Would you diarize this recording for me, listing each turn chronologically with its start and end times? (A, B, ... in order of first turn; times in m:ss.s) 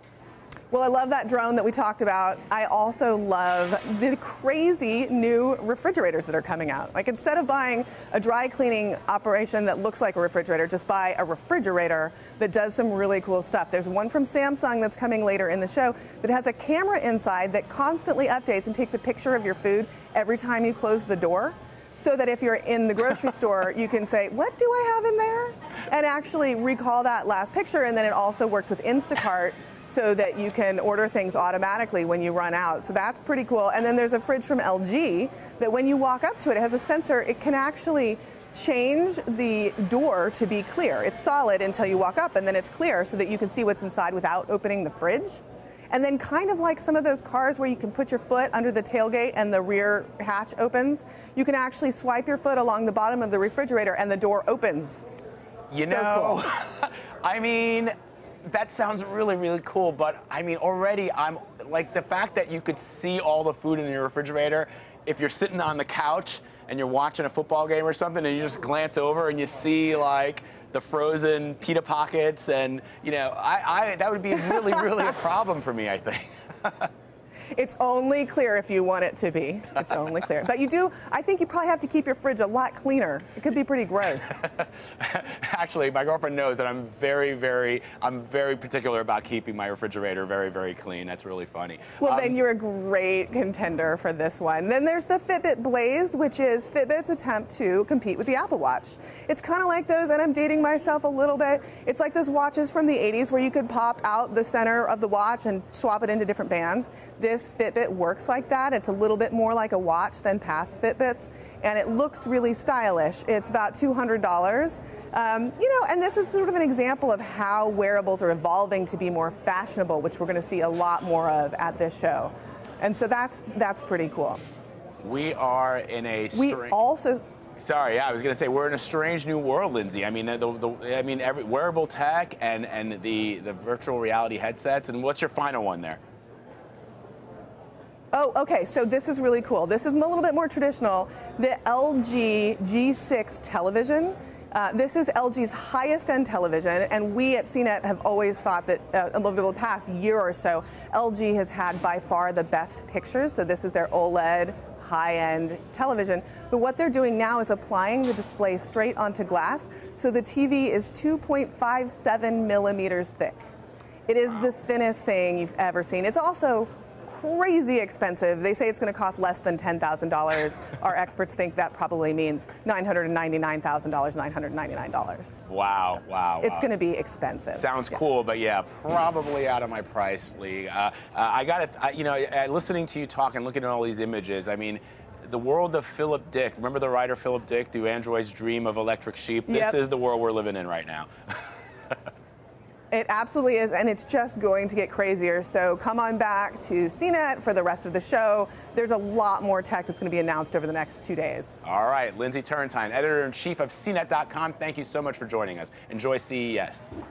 0:00.7-0:55.0 A
0:55.7-0:57.9 B
0:55.8-0:56.4 A
0:58.4-1:16.9 B
1:17.6-1:24.4 A
1:24.4-1:32.4 B
1:32.0-2:04.4 A
2:05.0-2:06.8 B
2:06.3-2:07.2 A
2:07.6-2:16.0 B
2:18.1-2:43.4 A
2:44.1-2:55.3 A
2:55.5-2:56.7 B
2:56.4-2:57.9 A
2:57.6-3:11.4 B
3:09.5-3:09.8 A
3:12.9-3:21.6 A
3:21.6-3:26.9 B